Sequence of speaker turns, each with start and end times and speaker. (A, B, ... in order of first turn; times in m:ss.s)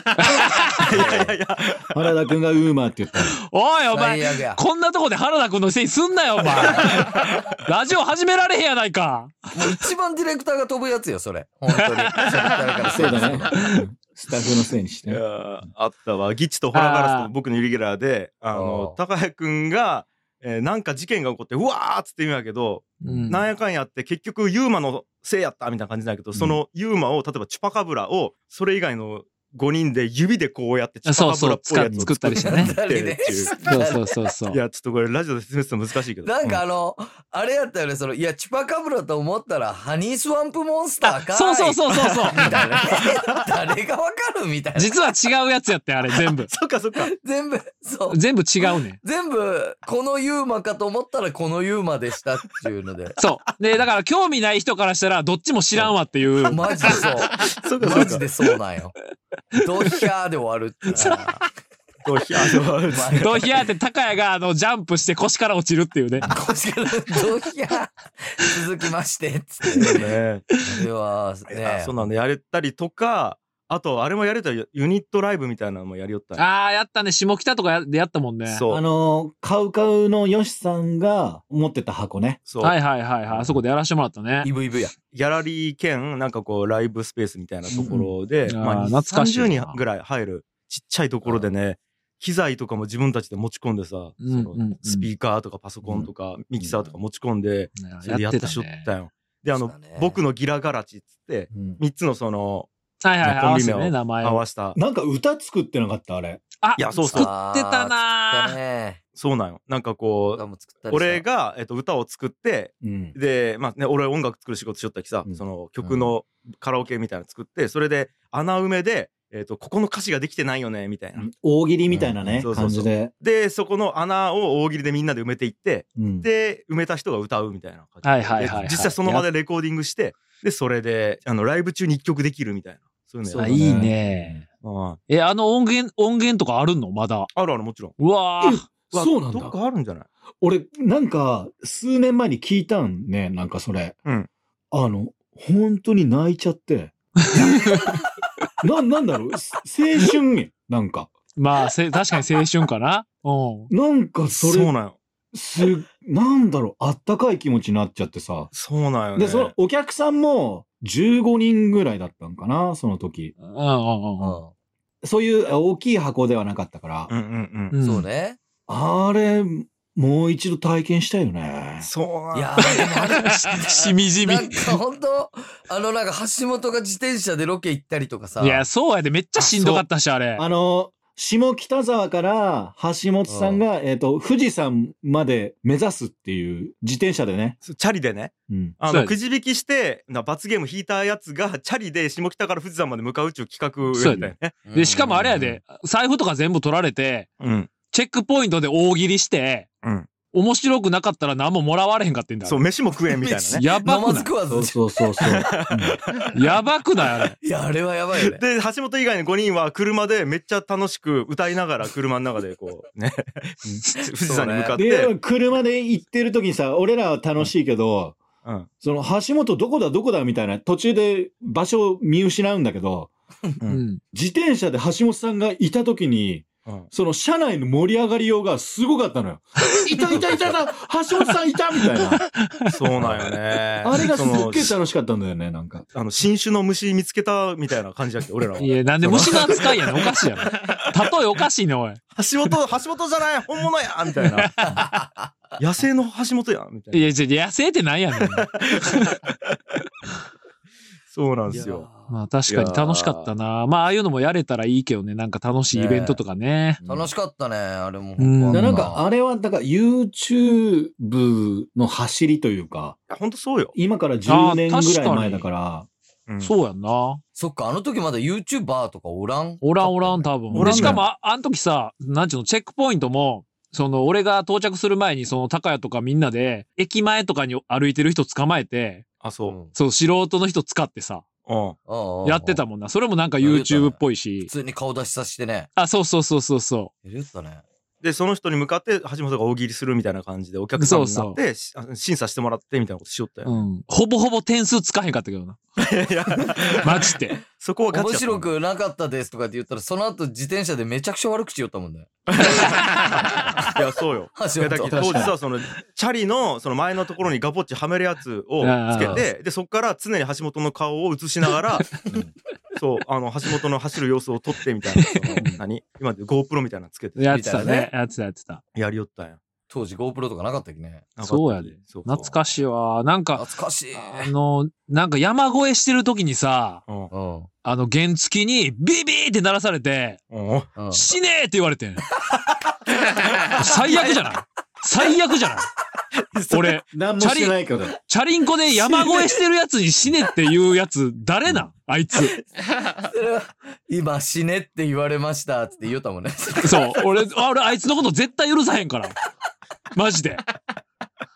0:00.2-0:01.0 A
0:00.8-0:02.1 B
0:01.0-0:01.2 C
0:01.9-0:03.4 D
0:03.2-0:09.7 A
0:03.9-0:04.6 C
0:06.7-0:07.5 B
0:09.5-0:13.8 C
0:11.9-0:12.5 A
0:12.9-0:15.2 D
0:15.1-0:33.6 B
0:16.7-0:17.3 A
0:18.5-0:19.0 C
0:23.0-0:23.4 A
0:23.1-0:23.4 D
0:31.0-0:32.8 A
0:32.4-0:34.1 C
0:33.6-0:34.6 A
0:34.5-0:36.6 B
0:36.2-0:44.9 C
0:41.1-0:42.6 A
0:41.9-0:43.4 B
0:44.7-0:46.5 A
0:46.2-0:47.1 B
0:47.1-0:48.2 C
0:48.1-0:49.0 A
0:49.0-0:53.1 C
0:53.2-0:57.0 A
0:56.4-0:58.9 C
0:57.4-0:58.2 B
0:59.5-1:01.4 C
1:00.9-1:01.4 A
1:02.0-1:03.5 B
1:02.8-1:03.4 C
1:03.2-1:06.3 A
1:06.2-1:12.0 C
1:09.8-1:10.4 B
1:11.5-1:16.5 B
1:16.4-1:18.6 A
1:18.4-1:18.8 B
1:18.7-1:22.4 D
1:22.4-1:22.8 B
1:22.6-1:24.5 A
1:24.4-1:24.9 C
1:25.1-1:42.7 B
1:27.7-1:28.0 C
1:27.8-1:28.1 D
1:28.4-1:29.8 A
1:34.2-1:35.1 A
1:35.8-1:36.9 D
1:37.8-1:38.9 A
1:39.5-1:40.2 C
1:41.5-1:41.8 D
1:43.0-1:44.4 A
1:43.2-1:44.8 B
1:44.7-1:46.4 D
1:46.6-1:48.6 A
1:46.8-1:47.3 B
1:47.1-1:49.0 C
1:49.2-2:01.3 B
1:50.3-1:51.2 C
1:52.8-1:53.2 D
2:01.2-2:03.1 D
2:02.4-2:14.0 B
2:06.0-2:06.3 D
2:08.0-2:09.3 A
2:13.2-2:14.4 D
2:13.4-2:14.4 A
2:14.6-2:15.0 B
2:15.1-2:17.3 A
2:17.3-2:18.0 B
2:18.0-2:18.6 A
2:18.4-2:19.5 D
2:18.9-2:20.1 B
2:20.4-2:24.0 D
2:24.7-2:27.5 D
2:27.3-2:27.9 A
2:28.6-2:31.1 D
2:31.4-2:33.7 A
2:33.7-2:34.7 D
2:34.4-2:35.0 B
2:35.3-2:38.5 D
2:38.5-2:39.5 B
2:39.1-2:43.3 D
2:43.4-2:44.4 A
2:44.2-2:44.5 C
2:45.0-2:47.1 D
2:47.1-2:47.7 B
2:47.7-2:48.0 A
2:47.8-2:48.4 C
2:48.7-2:51.9 D
2:51.8-2:52.8 B
2:52.3-2:58.7 C
2:52.6-2:54.8 A
2:58.4-3:00.4 A
2:59.4-2:59.8 B
3:00.4-3:07.6 D
3:03.3-3:03.6 C
3:07.6-3:14.6 B
3:08.5-3:08.7 D
3:08.9-3:09.2 A
3:13.9-3:17.3 A
3:14.6-3:15.1 C
3:17.4-3:17.7 B
3:17.9-3:19.7 A
3:19.8-3:20.1 B
3:20.3-3:22.6 A
3:22.4-3:23.6 B
3:23.1-3:25.7 C
3:23.5-3:24.3 A
3:24.5-3:26.0 D
3:25.2-3:26.5 B
3:26.3-3:27.4 A
3:27.4-3:28.4 C
3:28.2-3:35.1 B
3:34.2-3:34.8 C
3:34.7-3:38.2 D
3:38.8-3:43.1 D
3:43.6-3:44.0 A
3:44.1-3:52.2 D
3:52.7-3:54.8 B
3:53.8-3:55.8 D
3:55.9-4:00.8 B
3:58.6-4:02.0 A
4:02.1-4:04.7 B
4:04.2-4:05.0 A
4:04.6-4:05.3 C
4:05.6-4:07.1 B
4:06.9-4:09.2 A
4:08.2-4:09.6 B
4:11.1-4:11.9 B
4:11.5-4:12.2 C
4:12.1-4:16.8 A
4:12.5-4:13.3 B
4:15.7-4:16.2 C
4:16.8-4:17.1 B
4:16.8-4:19.0 C
4:18.2-4:18.9 A
4:18.5-4:23.0 D
4:23.1-4:23.7 B
4:23.7-4:25.9 D
4:24.2-4:25.4 A
4:26.3-4:26.5 B
4:26.4-4:27.2 A
4:27.4-4:30.9 C
4:29.6-4:39.0 A
4:30.5-4:31.0 B
4:30.5-4:31.0 D
4:39.2-4:39.6 B
4:39.4-4:39.7 C
4:39.7-4:41.2 A
4:41.4-4:41.8 B
4:41.8-4:42.6 C
4:42.2-4:44.5 A
4:43.4-4:45.7 C
4:45.8-4:46.9 A
4:47.0-4:47.6 C
4:48.0-4:53.6 B
4:50.8-4:51.4 A
4:53.4-4:55.6 A
4:55.8-4:58.5 B
4:56.8-4:57.4 A
4:57.9-5:02.8 C
5:02.3-5:12.0 B
5:04.3-5:05.4 C
5:08.6-5:09.2 A
5:09.0-5:09.2 C
5:12.0-5:12.3 C
5:12.8-5:17.7 B
5:15.1-5:15.6 A
5:17.2-5:18.6 A
5:17.3-5:17.9 C
5:18.7-5:19.4 B
5:19.7-5:21.0 C
5:21.2-5:22.4 B
5:21.2-5:26.8 A
5:23.3-5:24.3 C
5:27.1-5:27.5 C
5:27.6-5:30.2 A
5:30.3-5:30.7 B
5:30.7-5:31.1 C
5:30.9-5:32.0 A
5:33.0-5:34.2 B
5:33.5-5:35.7 A
5:33.6-5:34.3 C
5:36.2-5:36.8 B
5:36.5-5:42.4 A
5:36.9-5:38.0 D
5:42.8-5:47.0 C
5:46.6-5:49.2 A
5:49.9-5:50.4 A